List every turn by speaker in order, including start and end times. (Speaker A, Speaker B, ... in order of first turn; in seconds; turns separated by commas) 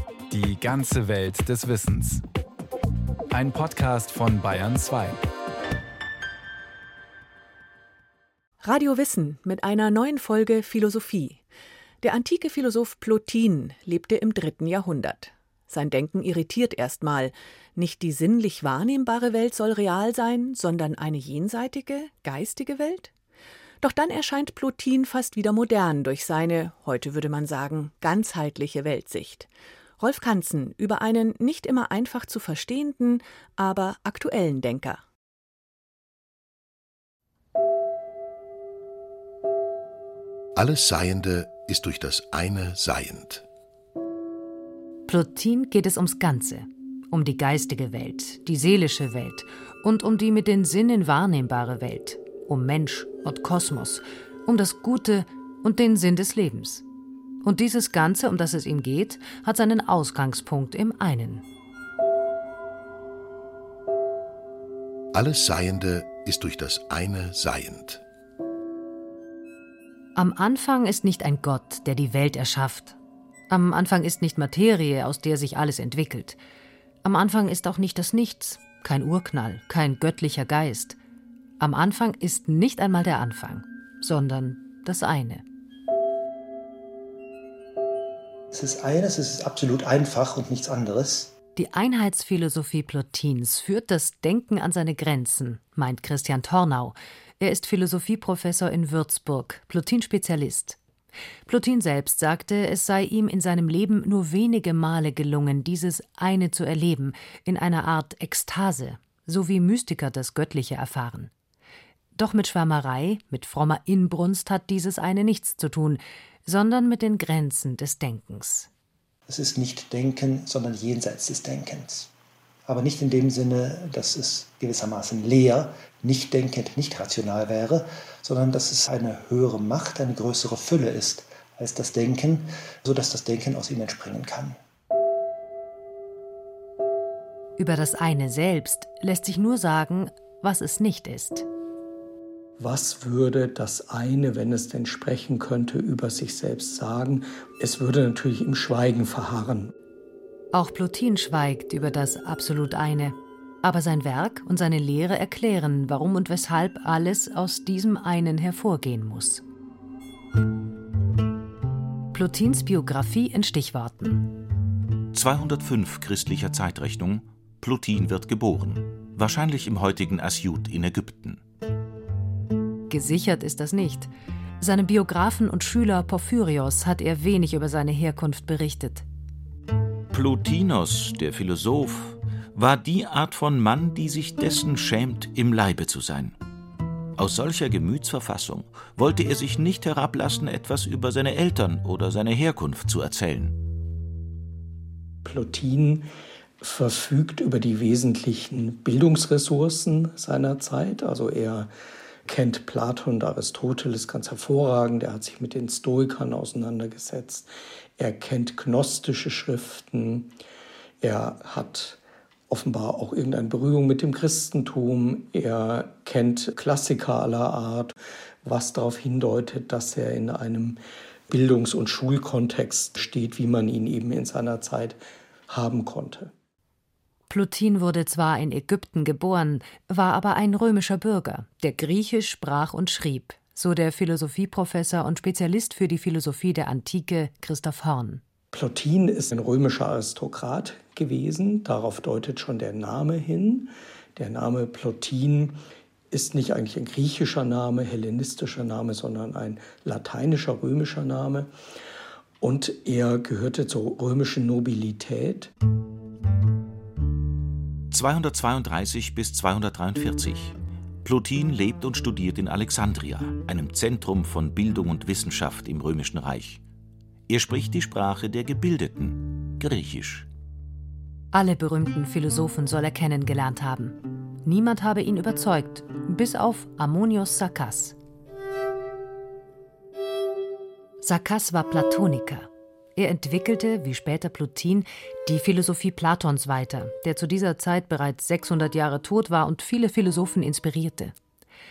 Speaker A: 0.3-2.2, Speaker A: 3.3-5.2, Speaker B: 8.6-11.4, Speaker B: 12.0-23.1, Speaker B: 23.8-35.0, Speaker C: 40.5-43.5, Speaker D: 45.1-56.8, Speaker D: 57.4-61.4, Speaker C: 65.1-68.0, Speaker D: 70.1-73.0, Speaker D: 73.5-76.4, Speaker D: 77.0-81.0, Speaker D: 81.6-85.4, Speaker E: 88.5-91.3, Speaker D: 91.5-100.8, Speaker D: 101.5-111.3, Speaker D: 112.2-118.7, Speaker E: 119.3-122.1, Speaker E: 122.7-134.6, Speaker D: 137.6-141.4, Speaker F: 142.6-149.7, Speaker D: 150.5-159.4, Speaker D: 162.1-164.3, Speaker G: 165.1-171.4, Speaker D: 172.9-179.1, Speaker G: 180.1-186.4, Speaker G: 187.2-193.6, Speaker F: 195.2-196.1, Speaker F: 196.6-201.7, Speaker F: 202.2-210.3, Speaker F: 211.0-212.0, Speaker F: 212.5-226.3, Speaker D: 227.3-238.2, Speaker F: 238.5-245.6, Speaker F: 246.1-251.5, Speaker F: 252.4-255.5, Speaker G: 257.9-266.6, Speaker G: 267.3-270.3, Speaker D: 271.3-277.9, Speaker D: 281.0-291.1